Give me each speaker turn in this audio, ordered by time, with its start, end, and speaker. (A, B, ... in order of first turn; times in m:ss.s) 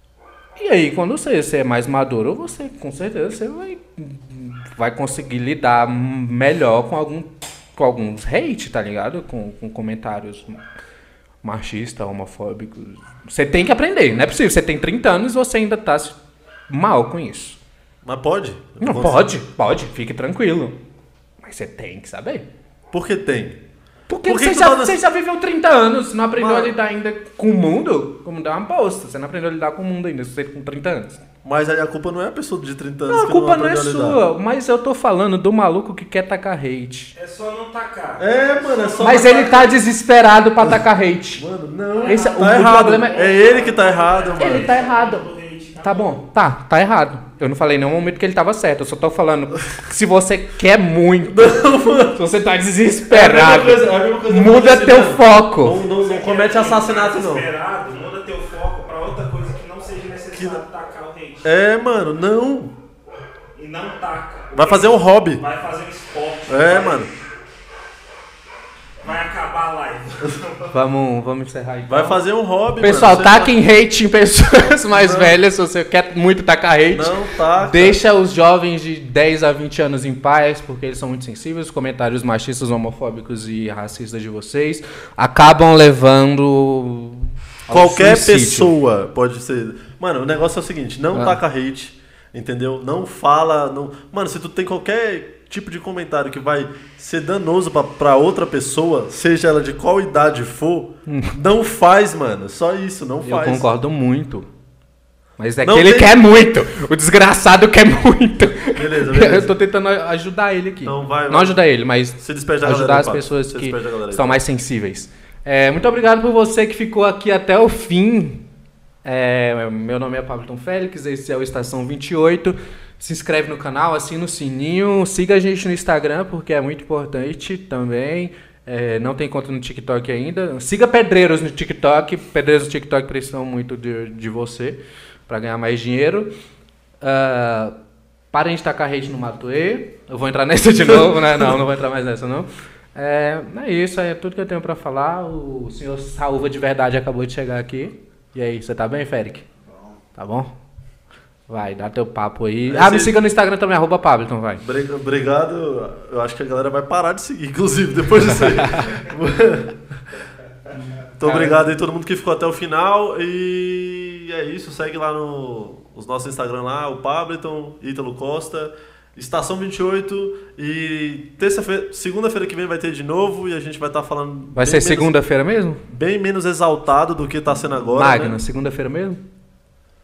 0:00.6-0:10.6 A
0:11.4-0:16.2 A
0:16.7-0:17.6 A
0:18.0-0:19.4 B
0:18.8-0:20.8 A
0:21.4-0:22.5 A
0:22.9-0:23.6 B
0:24.1-0:31.2 A
0:24.2-0:25.0 B
0:26.3-0:26.7 B
0:31.4-0:34.2 B
0:33.1-0:37.1 A
0:37.2-0:39.6 C
0:38.2-0:39.8 B
0:39.0-0:41.5 A
0:41.4-0:44.8 B
0:42.0-0:46.2 C
0:42.0-0:43.2 A
0:44.4-0:45.3 A
0:45.8-0:51.5 A
0:51.2-0:52.2 B
0:52.1-0:55.8 A
0:53.1-0:57.5 B
0:55.7-1:01.5 C
1:00.4-1:00.6 B
1:01.4-1:02.7 B
1:03.6-1:07.2 C
1:04.5-1:05.4 B
1:06.5-1:07.1 B
1:09.0-1:10.7 C
1:10.7-1:28.8 A
1:11.9-1:13.6 B
1:14.9-1:15.4 B
1:16.9-1:18.0 B
1:27.7-1:43.7 B
1:31.1-1:31.4 A
1:41.1-1:41.4 A
1:43.2-1:44.5 A
1:45.4-1:58.4 A
1:45.6-1:46.1 B
1:48.8-1:49.5 B
1:50.8-1:51.6 B
1:52.2-1:54.4 B
1:59.0-2:16.3 A
2:17.0-2:17.8 A
2:18.3-2:29.4 A
2:30.2-2:30.6 A
2:31.5-2:34.6 A
2:32.7-2:33.2 B
2:34.6-2:40.0 B
2:38.2-2:39.0 A
2:41.2-2:55.1 B
2:41.2-2:41.6 A
2:54.6-2:55.8 A
2:55.8-2:58.4 B
2:57.9-2:59.2 A